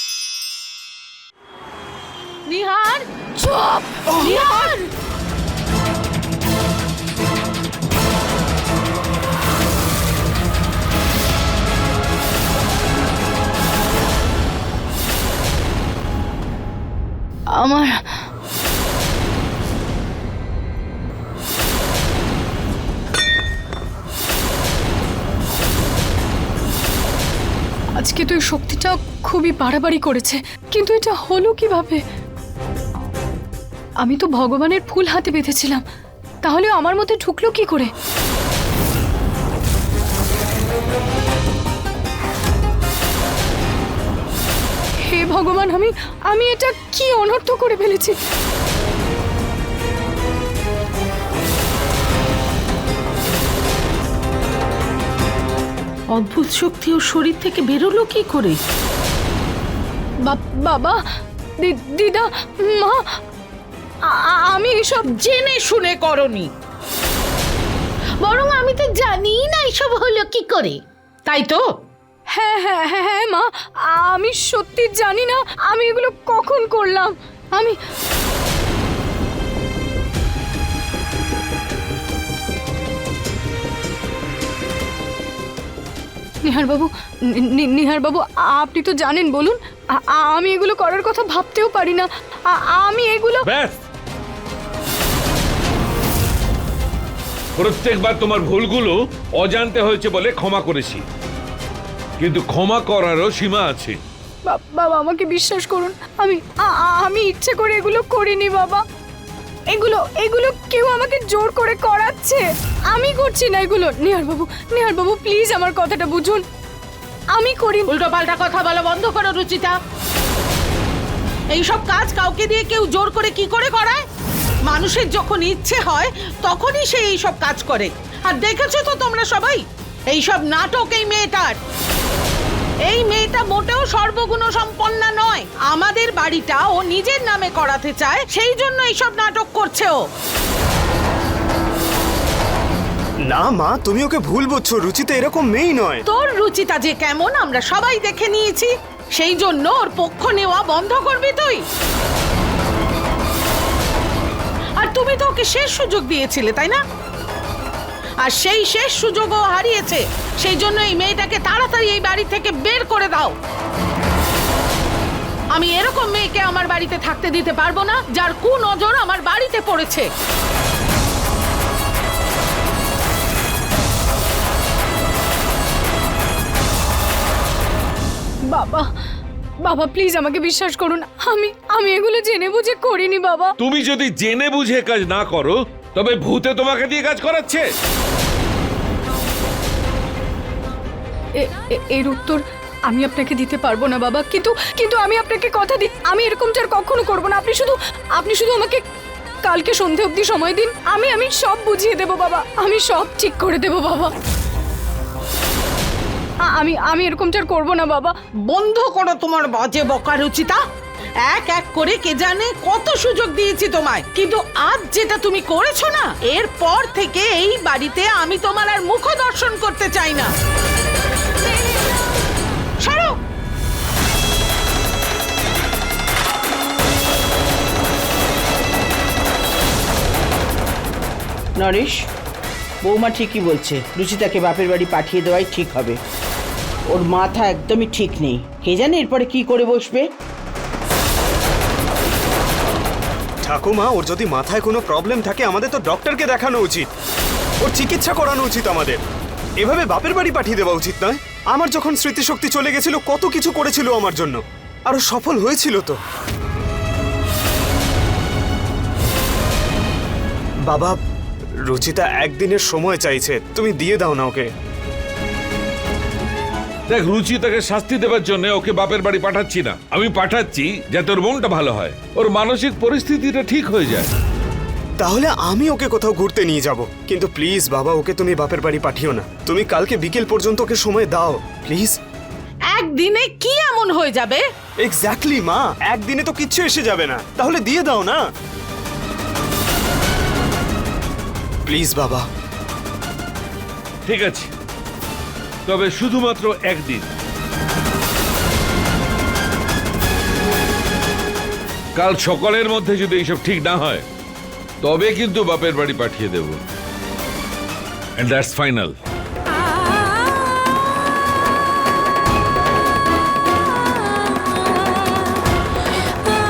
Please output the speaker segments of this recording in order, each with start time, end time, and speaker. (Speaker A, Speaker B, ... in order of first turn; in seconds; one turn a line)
Speaker A: 2.5-3.0
Speaker B: 3.4-4.8
Speaker A: 4.1-4.9
Speaker B: 17.5-18.0
Speaker B: 28.0-32.0
Speaker B: 34.0-35.8
Speaker B: 36.4-37.9
Speaker B: 45.0-48.1
Speaker A: 56.1-58.6
Speaker B: 60.2-61.0
Speaker B: 61.6-63.0
Speaker B: 64.0-65.1
Speaker A: 65.0-66.5
Speaker A: 68.2-71.6
Speaker B: 72.3-77.7
Speaker B: 86.4-93.5
Speaker C: 93.5-93.8
Speaker C: 97.6-101.0
Speaker C: 102.2-104.0
Speaker B: 104.5-108.8
Speaker B: 109.7-116.4
Speaker B: 117.3-117.9
Speaker A: 117.9-119.8
Speaker A: 121.5-124.0
Speaker A: 124.7-131.6
Speaker A: 132.8-140.0
Speaker D: 143.3-146.0
Speaker A: 146.1-151.6
Speaker A: 154.8-156.8
Speaker A: 158.2-163.3
Speaker A: 165.5-170.1
Speaker B: 178.5-178.9
Speaker B: 179.6-183.5
Speaker C: 183.6-187.7
Speaker B: 191.4-198.8
Speaker B: 199.4-204.1
Speaker B: 206.4-208.1
Speaker A: 208.4-210.6
Speaker A: 211.2-220.3
Speaker A: 222.8-223.2
Speaker E: 231.6-232.0
Speaker E: 232.8-236.0
Speaker E: 236.9-240.1
Speaker D: 243.4-246.9
Speaker D: 247.6-249.0
Speaker D: 249.6-256.0
Speaker D: 260.7-261.0
Speaker D: 261.6-264.5
Speaker C: 266.9-274.1
Speaker D: 275.0-282.0
Speaker A: 282.7-284.4
Speaker D: 284.8-288.2
Speaker D: 291.7-292.3
Speaker C: 294.1-294.5
Speaker C: 295.7-297.1
Speaker C: 301.9-304.0
Speaker C: 304.8-306.6
Speaker C: 308.2-308.9